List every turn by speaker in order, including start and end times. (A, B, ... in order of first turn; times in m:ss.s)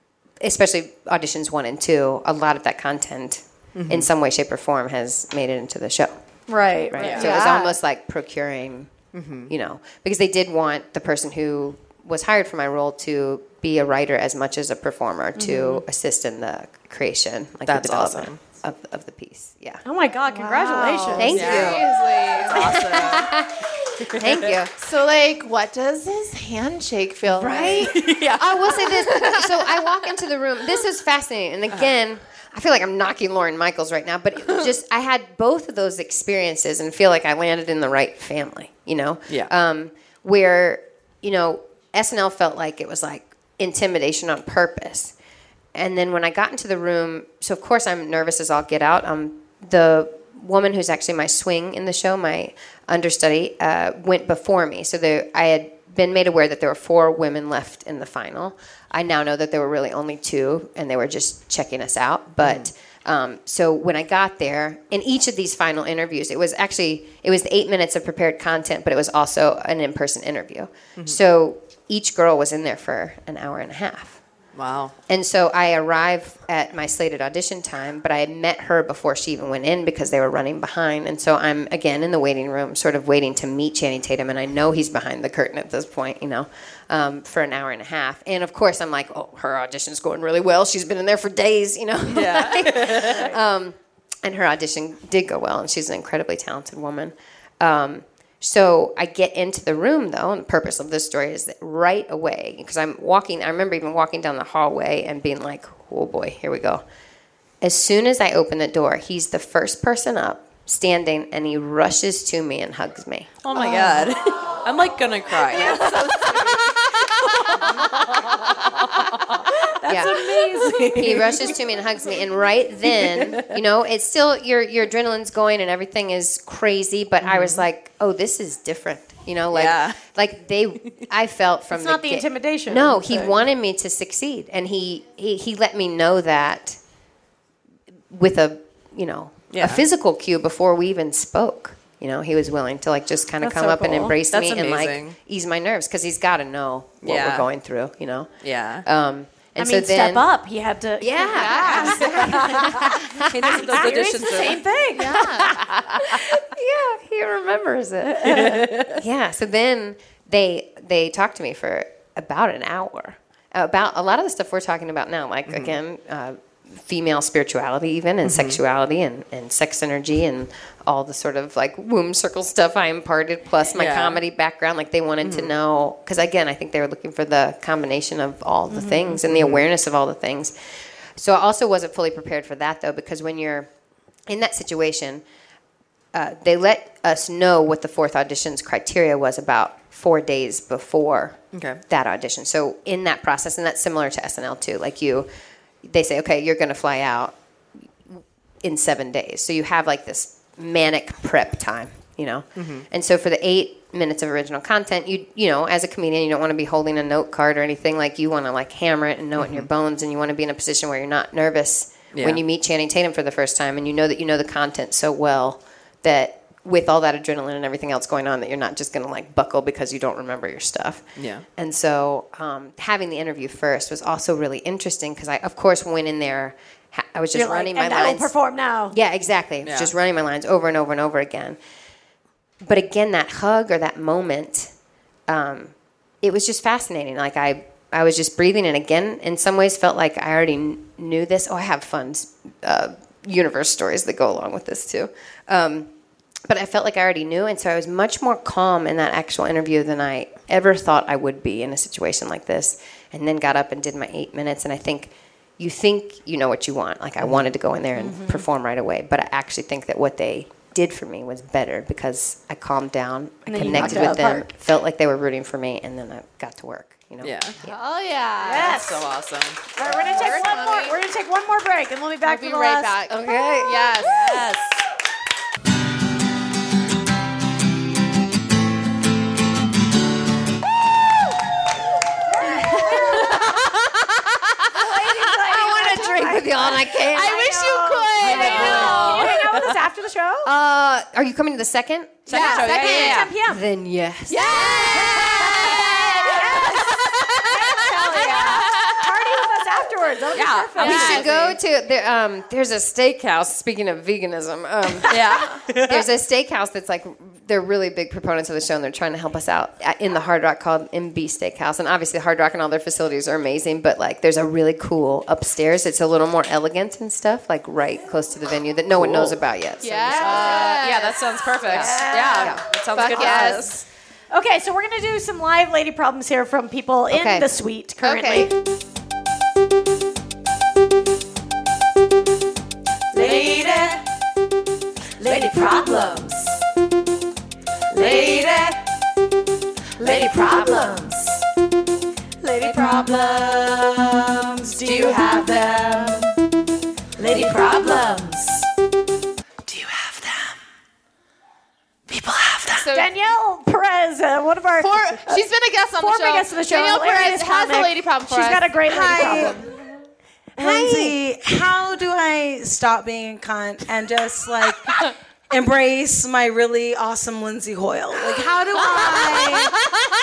0:00.4-0:06.2 A
0:03.7-0:04.1 B
0:06.5-0:07.7 C
0:06.9-0:08.9 A
0:07.0-0:07.3 B
0:09.1-0:09.5 B
0:09.5-0:19.8 A
0:15.4-0:15.7 C
0:17.7-0:18.4 B
0:19.8-0:21.6 C
0:20.3-0:23.1 D
0:21.1-0:24.7 A
0:21.2-0:23.4 B
0:24.0-0:24.5 B
0:24.8-0:28.1 D
0:27.3-0:45.1 A
0:27.8-0:29.6 B
0:45.7-1:14.2 A
1:02.4-1:02.7 B
1:14.5-1:14.9 B
1:15.1-1:46.8 A
1:32.1-1:33.3 B
1:47.6-1:53.3 A
1:53.4-2:01.5 B
1:53.5-1:54.1 C
1:59.8-2:00.2 A
1:59.9-2:01.2 C
2:00.9-2:16.8 A
2:03.0-2:03.5 B
2:07.2-2:07.6 B
2:09.5-2:10.0 B
2:11.7-2:13.4 C
2:18.1-2:30.3 A
2:19.5-2:19.8 B
2:23.4-2:24.2 C
2:24.2-2:25.2 B
2:27.0-2:27.5 B
2:28.4-2:28.8 B
2:29.6-2:35.3 C
2:31.0-2:33.3 A
2:31.2-2:32.2 D
2:32.0-2:34.6 B
2:34.9-2:35.6 D
2:35.4-3:00.5 A
2:35.9-2:36.3 B
2:38.2-2:39.0 B
2:45.5-2:45.7 B
2:48.2-2:48.6 B
2:53.7-2:54.2 B
2:55.2-2:55.5 B
2:58.7-2:59.1 C
2:59.2-2:59.7 B
3:01.1-3:03.7 A
3:04.3-3:05.2 A
3:06.1-3:15.3 A
3:11.5-3:11.8 B
3:15.8-3:17.4 A
3:18.0-3:41.0 A
3:22.6-3:22.8 B
3:29.4-3:29.6 B
3:32.1-3:32.4 B
3:41.2-3:41.4 B
3:41.6-3:48.3 A
3:47.3-3:49.0 C
3:48.9-3:51.6 A
3:49.6-3:49.9 B
3:52.6-3:54.7 A
3:55.3-4:05.9 A
4:06.4-4:27.8 A
4:23.4-4:24.5 C
4:23.6-4:24.2 B
4:27.2-4:27.6 B
4:27.6-4:28.8 D
4:28.4-4:29.1 C
4:28.5-4:29.7 B
4:29.7-4:33.0 C
4:29.8-4:31.0 D
4:32.2-4:34.4 D
4:33.1-4:33.9 A
4:34.0-4:34.8 B
4:42.4-4:43.3 C
4:42.4-4:43.7 A
4:42.9-4:43.4 D
4:44.7-4:50.5 C
4:45.3-4:49.2 A
4:46.8-4:49.4 D
4:48.2-4:49.7 B
4:50.4-4:52.8 A
4:52.3-4:53.3 B
4:52.3-4:53.3 D
4:52.3-4:53.6 C
4:53.4-4:56.0 A
4:54.3-4:59.1 D
4:54.6-5:01.4 C
4:55.1-4:55.7 B
4:58.3-4:58.6 B
5:00.3-5:01.4 B
5:00.8-5:01.4 D
5:00.8-5:20.8 A
5:05.0-5:06.1 B
5:19.0-5:19.4 B
5:19.8-5:22.0 D
5:20.1-5:23.8 B
5:21.7-5:22.6 C
5:21.7-5:23.6 A
5:22.9-5:23.7 D
5:24.3-5:28.5 C
5:27.1-5:27.5 A
5:28.0-5:28.5 D
5:33.1-5:34.0 C
5:33.2-5:33.8 B
5:35.2-5:36.4 C
5:37.9-5:38.6 B
5:38.0-5:38.5 C
5:40.0-5:41.2 C
5:40.0-5:40.9 B
5:42.4-5:43.5 C
5:42.6-5:43.1 B
5:44.3-5:45.7 C
5:44.8-5:46.2 B
5:47.2-5:48.4 C
5:47.4-5:48.3 B
5:49.7-5:50.5 B
5:52.1-5:52.8 B
5:52.8-5:53.1 D
5:52.9-5:59.6 C
5:54.8-5:59.7 D
5:58.9-5:59.7 E
6:00.6-6:09.8 E
6:00.6-6:01.1 D
6:09.1-6:09.7 D